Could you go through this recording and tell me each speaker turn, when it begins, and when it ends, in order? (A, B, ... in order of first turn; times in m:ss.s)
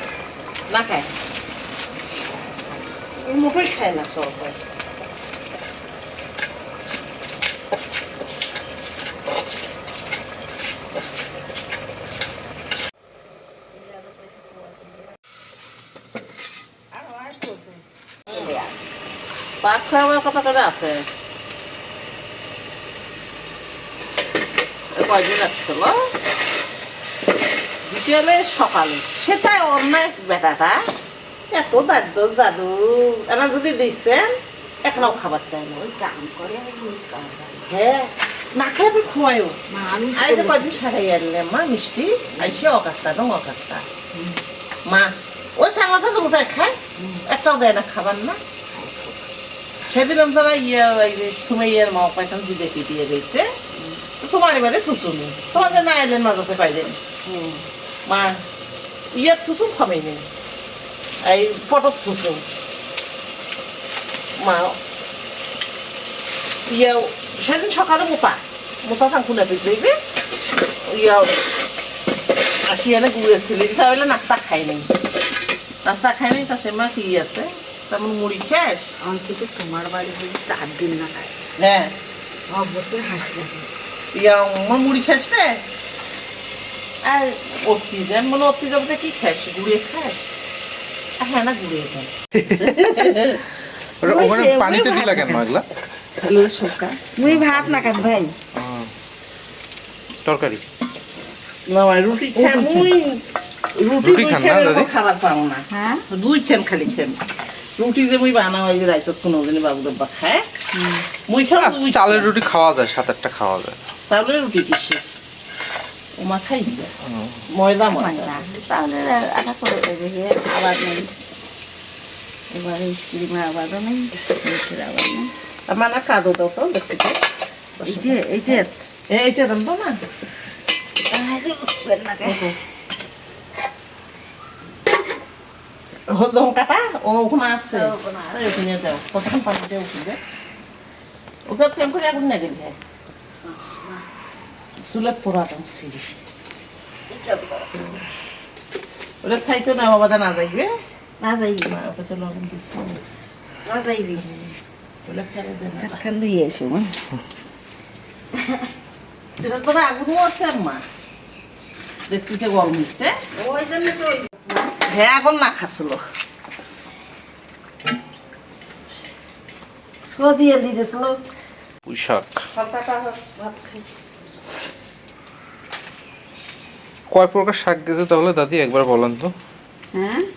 0:00.7-0:01.1 A
0:03.2-0:04.6 A
0:13.7-0:15.1 B
0:16.9-0:18.8 B
0:19.6-0:21.0 A
0:24.9-0:26.0 A
0:27.9-0:30.8 A
0:31.5-0:35.8 A
0:35.7-0:37.7 B
0:37.7-0:39.6 A
0:39.7-0:40.8 B
0:40.2-0:43.8 A
0:42.3-0:42.6 B
0:44.8-0:48.4 A
0:48.7-0:49.2 B
0:49.9-0:53.4 A
0:54.2-0:57.0 A
0:55.5-0:55.8 B
0:57.2-0:57.6 B
0:58.0-0:58.4 A
0:59.1-1:00.2 A
1:01.2-1:02.4 A
1:04.4-1:04.8 A
1:06.7-1:09.9 A
1:10.8-1:11.4 A
1:12.7-1:14.9 A
1:15.8-1:18.9 A
1:19.0-1:21.3 B
1:21.6-1:21.9 A
1:22.5-1:23.7 B
1:24.1-1:25.6 A
1:27.0-1:30.3 A
1:31.2-1:33.4 A
1:32.4-1:33.1 C
1:34.0-1:35.6 C
1:34.0-1:35.4 B
1:36.2-1:37.0 A
1:37.2-1:38.3 B
1:37.2-1:38.9 C
1:40.2-1:40.6 C
1:41.7-1:43.2 A
1:42.4-1:42.9 B
1:43.7-1:47.2 A
1:44.0-1:44.9 C
1:45.7-1:46.0 B
1:47.8-1:50.4 A
1:50.7-1:51.0 B
1:51.3-1:52.3 A
1:51.6-1:53.8 C
1:54.1-1:55.0 A
1:56.2-1:56.9 A
1:57.1-1:57.4 C
1:57.5-1:58.3 A
1:57.9-2:01.1 B
2:02.5-2:05.3 B
2:05.7-2:07.2 A
2:07.8-2:10.0 A
2:07.8-2:08.8 B
2:11.1-2:12.5 B
2:12.2-2:12.5 A
2:16.1-2:20.2 A
2:17.7-2:18.6 B
2:21.5-2:22.8 A
2:23.4-2:24.0 B
2:24.8-2:26.1 A
2:27.1-2:28.0 B
2:29.2-2:30.7 A
2:31.2-2:31.8 B
2:31.7-2:33.0 A
2:33.6-2:34.2 B
2:34.2-2:34.5 A
2:35.0-2:36.0 A
2:35.8-2:37.0 B
2:38.4-2:38.7 B
2:39.4-2:40.8 A
2:42.1-2:43.1 A
2:43.3-2:44.7 B
2:44.9-2:46.0 A
2:50.1-2:51.2 B
2:51.8-2:52.3 C
2:52.5-2:53.8 A
2:57.1-2:59.3 C
2:59.9-3:00.3 B